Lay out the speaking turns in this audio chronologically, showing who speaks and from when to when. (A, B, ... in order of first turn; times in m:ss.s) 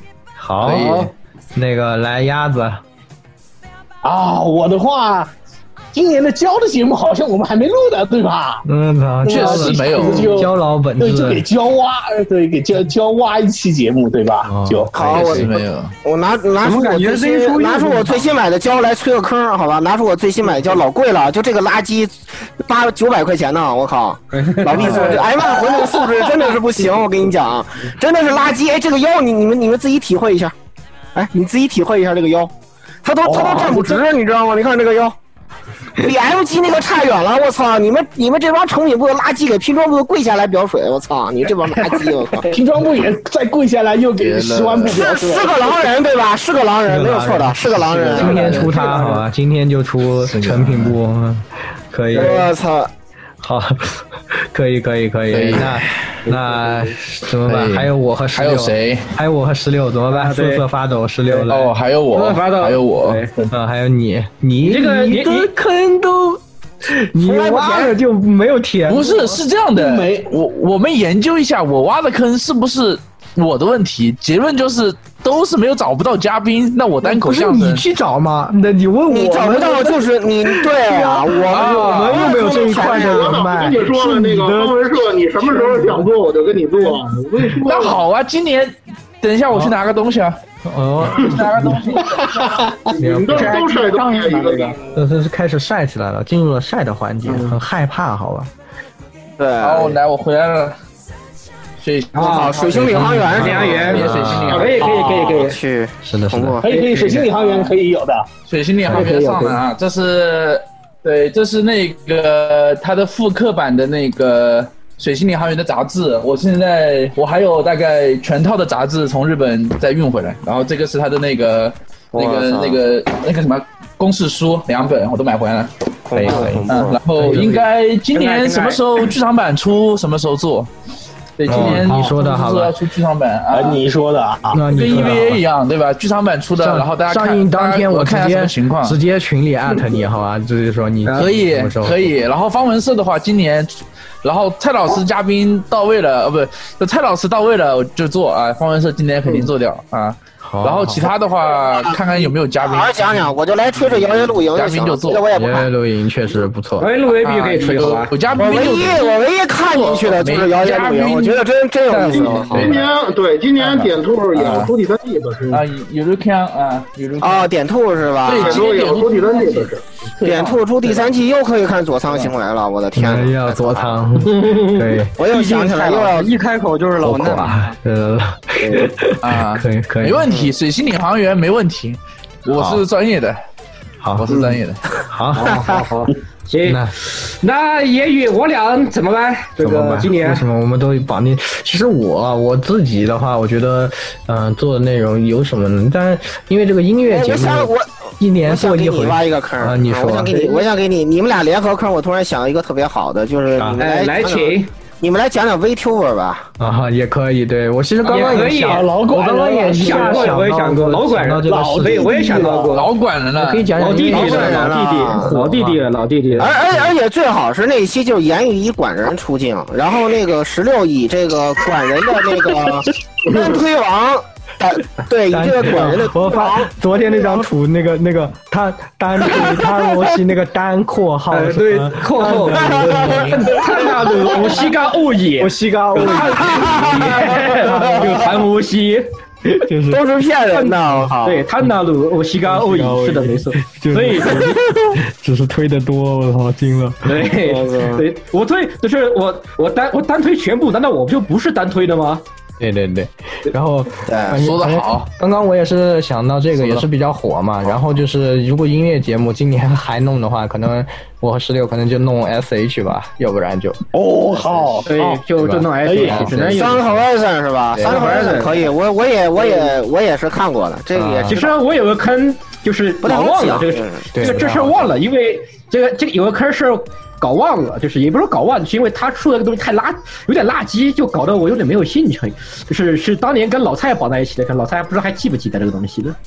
0:00.4-0:02.8 A
0:00.6-0:01.1 B
0:04.0-0:05.3 C
0:05.9-0:08.6 C
0:08.6-0:11.4 A
0:09.2-0:14.9 C
0:09.2-0:10.3 B
0:14.5-0:14.9 A
0:14.9-0:30.5 D
0:14.9-0:15.9 B
0:16.6-0:18.2 E
0:24.3-0:25.1 F
0:24.7-0:25.2 B
0:31.1-0:32.5 D
0:33.0-0:35.1 D
0:33.2-0:34.0 C
0:36.0-0:42.5 D
0:42.5-0:45.7 C
0:44.2-0:44.9 B
0:45.0-0:48.7 D
0:46.8-0:52.5 A
0:48.2-0:49.2 F
0:50.2-0:51.0 B
0:52.1-0:52.9 D
0:53.4-1:01.7 A
0:55.3-0:56.1 B
0:56.2-0:56.9 F
0:57.4-0:59.1 B
1:00.1-1:00.6 F
1:01.5-1:03.2 B
1:02.1-1:03.3 F
1:03.5-1:09.3 A
1:04.6-1:05.5 F
1:07.2-1:08.0 D
1:08.9-1:17.8 B
1:09.7-1:10.3 C
1:17.0-1:24.9 A
1:19.1-1:23.4 D
1:21.5-1:22.3 B
1:22.3-1:28.0 G
1:25.4-1:26.1 A
1:27.6-1:30.4 B
1:30.6-1:31.5 A
1:31.0-1:32.6 B
1:32.2-1:32.8 C
1:32.9-1:34.8 G
1:33.0-1:33.6 A
1:33.3-1:34.8 E
1:34.9-1:38.5 A
1:39.4-1:40.0 D
1:39.6-1:40.8 B
1:41.8-1:44.8 B
1:42.1-1:42.6 F
1:42.2-1:44.1 D
1:42.7-1:44.7 A
1:43.3-1:45.6 F
1:44.5-1:44.9 G
1:44.8-1:45.2 C
1:44.9-1:46.7 D
1:46.0-1:46.6 A
1:46.6-1:48.3 C
1:46.7-1:47.3 F
1:48.5-2:10.7 B
1:48.9-1:49.6 F
2:02.1-2:02.8 D
2:06.1-2:07.0 D
2:06.2-2:07.5 A
2:08.1-2:08.8 F
2:11.4-2:13.8 B
2:11.5-2:12.7 A
2:11.5-2:11.9 C
2:13.5-2:14.6 C
2:14.5-2:15.4 A
2:14.7-2:19.0 B
2:16.6-2:22.1 A
2:21.1-2:33.2 B
2:30.4-2:31.1 A
2:31.5-2:35.7 D
2:34.1-2:35.2 B
2:35.3-2:36.9 A
2:36.8-2:38.1 F
2:37.2-2:39.1 B
2:38.3-2:42.7 D
2:39.8-2:42.9 B
2:42.1-2:45.6 G
2:42.5-2:42.8 A
2:43.6-2:44.7 B
2:45.5-2:47.5 B
2:47.2-2:48.6 D
2:48.2-2:51.1 B
2:48.3-2:49.8 G
2:50.2-2:54.1 D
2:52.9-2:55.2 A
2:55.2-2:56.3 D
2:55.2-2:57.8 E
2:57.0-3:00.3 A
2:59.2-3:03.4 B
3:00.3-3:00.5 D
3:02.6-3:02.8 A
3:04.0-3:04.3 A
3:04.2-3:04.8 B
3:05.1-3:05.8 A
3:05.4-3:06.0 F
3:06.5-3:10.4 F
3:06.6-3:06.9 A
3:09.6-3:20.4 A
3:17.1-3:26.5 D
3:20.3-3:20.6 F
3:23.6-3:23.8 A
3:23.8-3:24.7 F
3:26.6-3:32.6 A
3:28.1-3:28.8 F
3:28.6-3:30.4 C
3:29.7-3:32.9 F
3:31.5-3:32.8 C
3:32.7-3:33.7 B
3:33.3-3:35.8 A
3:33.8-3:36.5 F
3:34.1-3:35.3 D
3:36.3-3:36.9 A
3:36.4-3:46.7 D
3:45.3-3:54.5 A
3:51.3-3:59.0 F
3:52.2-3:53.6 D
3:55.4-3:58.3 A
3:56.2-3:58.1 D
3:59.6-4:00.0 A
3:59.9-4:01.4 D
4:00.5-4:04.5 F
4:02.4-4:07.2 A
4:07.0-4:12.2 F
4:07.4-4:08.0 D
4:12.6-4:23.8 A
4:14.0-4:14.4 D
4:14.4-4:15.1 B
4:16.6-4:16.8 B
4:23.9-4:25.2 C
4:24.3-4:24.8 A
4:24.9-4:26.8 F
4:25.4-4:27.0 A
4:25.8-4:26.7 C
4:26.5-4:31.6 D
4:27.7-4:28.3 A
4:27.8-4:28.7 F
4:30.9-4:31.4 A
4:31.3-4:46.2 F
4:33.0-4:34.1 D
4:34.1-4:34.9 A